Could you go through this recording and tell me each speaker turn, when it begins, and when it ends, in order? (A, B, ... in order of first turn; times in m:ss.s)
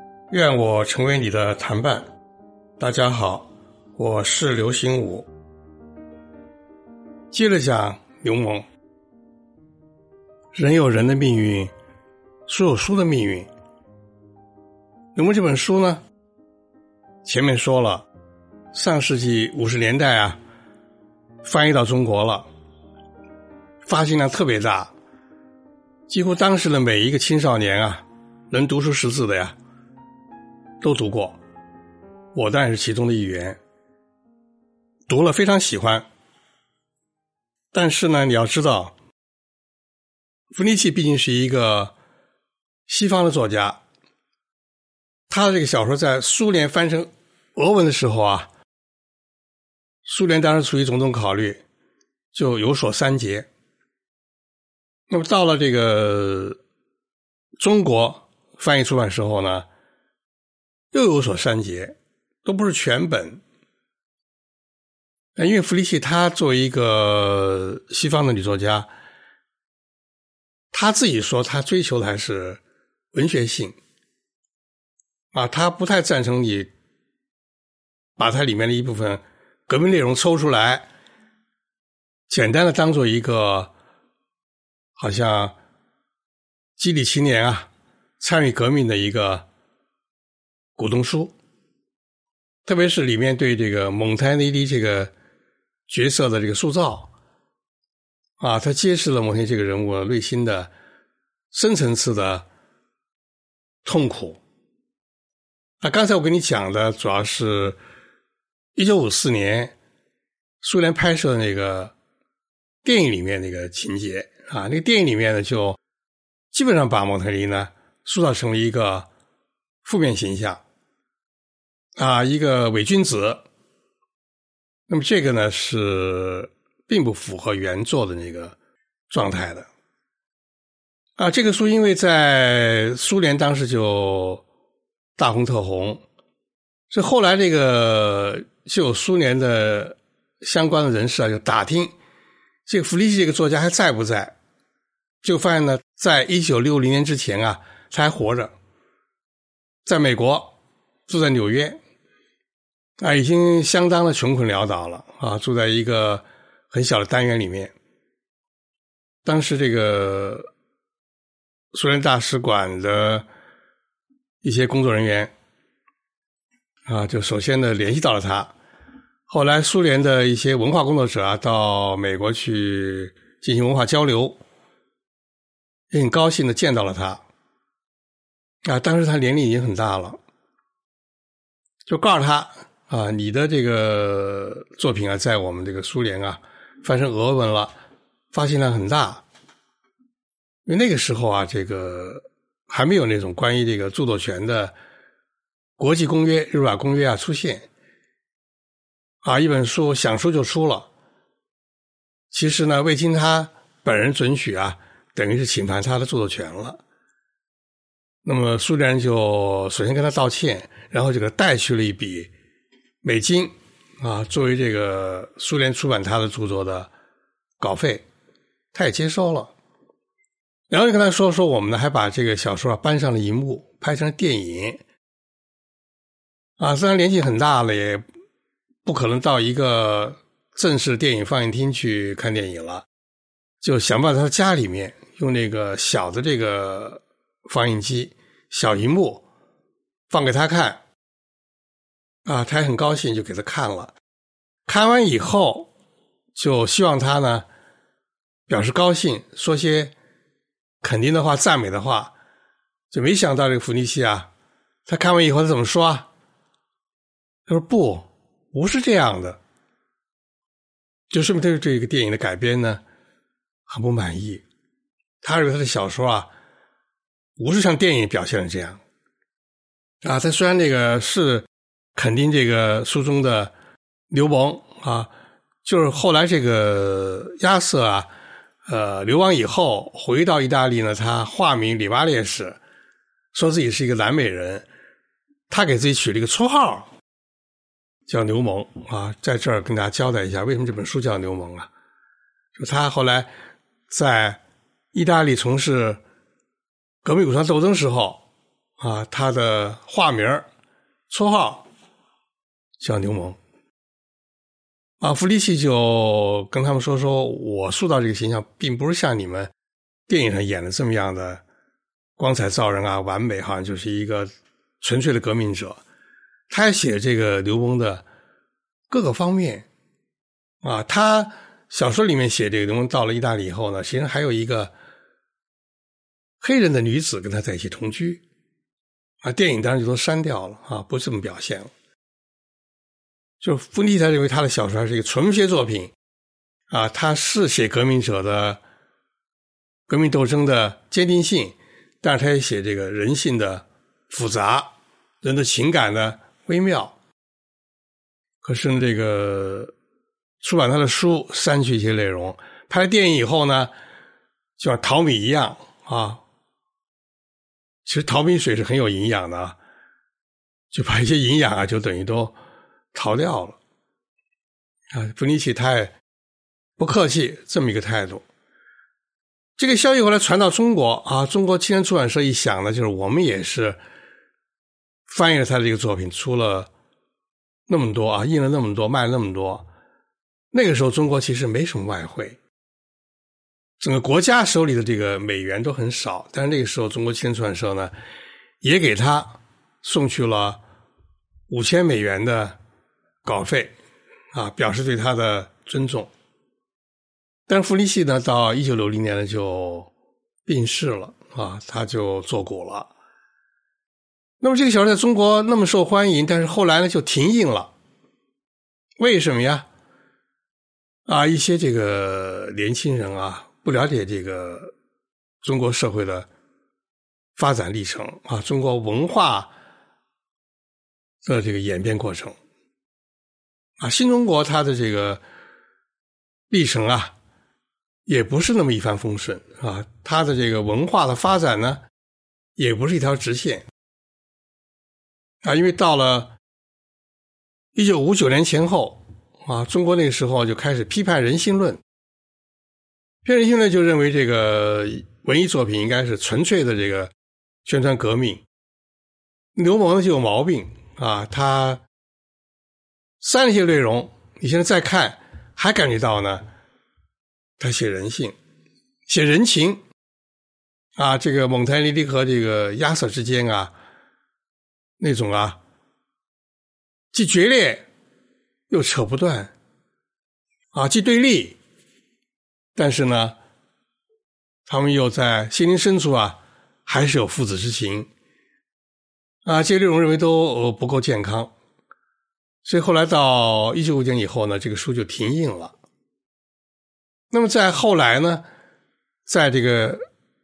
0:00.3-0:02.1 A
0:02.8-0:05.3 A
0:07.3-0:08.7 A
0:10.5-0:11.7 A
0:12.5-0:13.5 A
0:15.2-0:16.0 A
0:17.2-0:18.1 A
0:18.7-0:20.4 A
0:21.4-0:22.5 A
0:23.9-0:24.9 A
0:26.1-0:29.6 A
0:30.8-0:31.4 A
0:32.3-0:33.6 A
0:35.1-0:36.1 A
0:37.7-0:38.9 A
0:40.5-0:41.9 A
0:42.9-0:43.8 A
0:45.3-0:48.5 A
0:50.0-0:51.6 A
0:52.3-0:53.5 A
0:55.1-0:56.6 A
0:57.6-0:59.7 A
1:00.9-1:03.4 A
1:05.4-1:08.9 A
1:10.7-1:12.6 A
1:13.1-1:13.8 A
1:15.3-1:16.7 A
1:18.2-1:20.9 A
1:22.3-1:23.7 A
1:25.0-1:25.5 A
1:26.8-1:27.7 A
1:28.2-1:29.4 A
1:30.8-1:31.4 A
1:32.6-1:35.1 A
1:35.9-1:37.1 A
1:38.4-1:40.7 A
1:41.5-1:42.5 A
1:43.8-1:44.4 A
1:45.8-1:47.8 A
1:48.8-1:49.8 A
1:50.6-1:51.9 A
1:52.8-1:55.8 A
1:56.5-1:59.1 A
1:59.8-2:00.6 A
2:02.0-2:03.4 A
2:04.9-2:08.6 A
2:09.1-2:09.7 A
2:11.2-2:14.4 A
2:15.2-2:16.0 A
2:16.9-2:21.9 A
2:22.7-2:24.4 A
2:25.2-2:28.5 A
2:29.8-2:30.6 A
2:31.1-2:31.8 A
2:33.0-2:37.7 A
2:39.2-2:40.5 A
2:41.7-2:43.3 A
2:44.4-2:45.3 A
2:46.9-2:48.5 A
2:49.3-2:54.4 A
2:55.9-2:57.2 A
2:58.7-3:00.2 A
3:01.9-3:07.7 A
3:08.3-3:09.2 A
3:10.7-3:14.7 A
3:15.8-3:17.7 A
3:19.2-3:20.9 A
3:22.3-3:26.8 A
3:28.2-3:32.3 A
3:33.0-3:36.9 A
3:37.6-3:38.0 A
3:38.7-3:39.5 A
3:40.7-3:44.8 A
3:46.6-3:48.0 A
3:48.8-3:52.9 A
3:53.6-3:59.2 A
4:00.1-4:00.8 A
4:02.3-4:03.9 A
4:04.7-4:05.7 A
4:06.4-4:07.5 A
4:08.5-4:09.9 A
4:10.8-4:12.1 A
4:12.9-4:14.3 A
4:14.9-4:16.1 A
4:17.5-4:19.4 A
4:21.1-4:22.8 A
4:23.7-4:24.4 A
4:25.2-4:26.3 A
4:27.4-4:28.8 A
4:30.0-4:33.5 A
4:34.1-4:35.1 A
4:35.6-4:38.1 A
4:38.7-4:42.6 A
4:43.3-4:44.7 A
4:45.5-4:46.9 A
4:48.1-4:51.7 A
4:52.6-4:53.3 A
4:53.9-4:54.4 A
4:54.9-4:56.0 A
4:57.0-4:58.2 A
4:58.8-5:00.5 A
5:01.1-5:01.7 A
5:02.8-5:03.4 A
5:05.0-5:09.5 A
5:10.1-5:11.4 A
5:12.2-5:14.3 A
5:14.8-5:15.8 A
5:16.5-5:18.0 A
5:18.9-5:19.7 A
5:20.6-5:24.7 A
5:26.4-5:28.2 A
5:29.2-5:31.7 A
5:33.4-5:35.9 A
5:36.7-5:38.6 A
5:39.9-5:44.7 A
5:45.2-5:47.0 A
5:48.4-5:49.7 A
5:50.4-5:53.7 A
5:54.6-5:56.2 A
5:57.8-5:59.6 A
6:00.7-6:02.4 A
6:02.9-6:03.6 A
6:04.9-6:05.9 A
6:06.8-6:08.2 A
6:09.6-6:13.8 A
6:15.1-6:16.7 A
6:17.7-6:19.7 A
6:20.5-6:22.4 A
6:23.8-6:27.9 A
6:28.6-6:30.6 A
6:31.5-6:32.6 A
6:33.2-6:33.8 A
6:34.3-6:36.1 A
6:37.5-6:39.9 A
6:40.5-6:42.9 A
6:44.4-6:47.7 A
6:49.0-6:49.7 A
6:51.1-6:54.7 A
6:55.4-6:56.3 A
6:57.4-6:59.5 A
7:01.2-7:02.4 A
7:03.8-7:05.2 A
7:06.5-7:07.1 A
7:08.1-7:11.8 A
7:12.6-7:13.6 A
7:15.4-7:16.4 A
7:17.8-7:21.8 A
7:23.2-7:27.1 A
7:27.6-7:28.4 A
7:29.6-7:31.8 A
7:33.2-7:36.4 A
7:37.6-7:38.4 A
7:39.1-7:39.8 A
7:41.0-7:43.7 A
7:45.0-7:45.6 A
7:47.1-7:47.9 A
7:48.7-7:49.5 A
7:50.7-7:51.6 A
7:52.8-7:53.4 A
7:54.7-7:58.1 A
7:59.4-8:01.5 A
8:02.6-8:05.7 A
8:07.3-8:08.4 A
8:09.3-8:10.0 A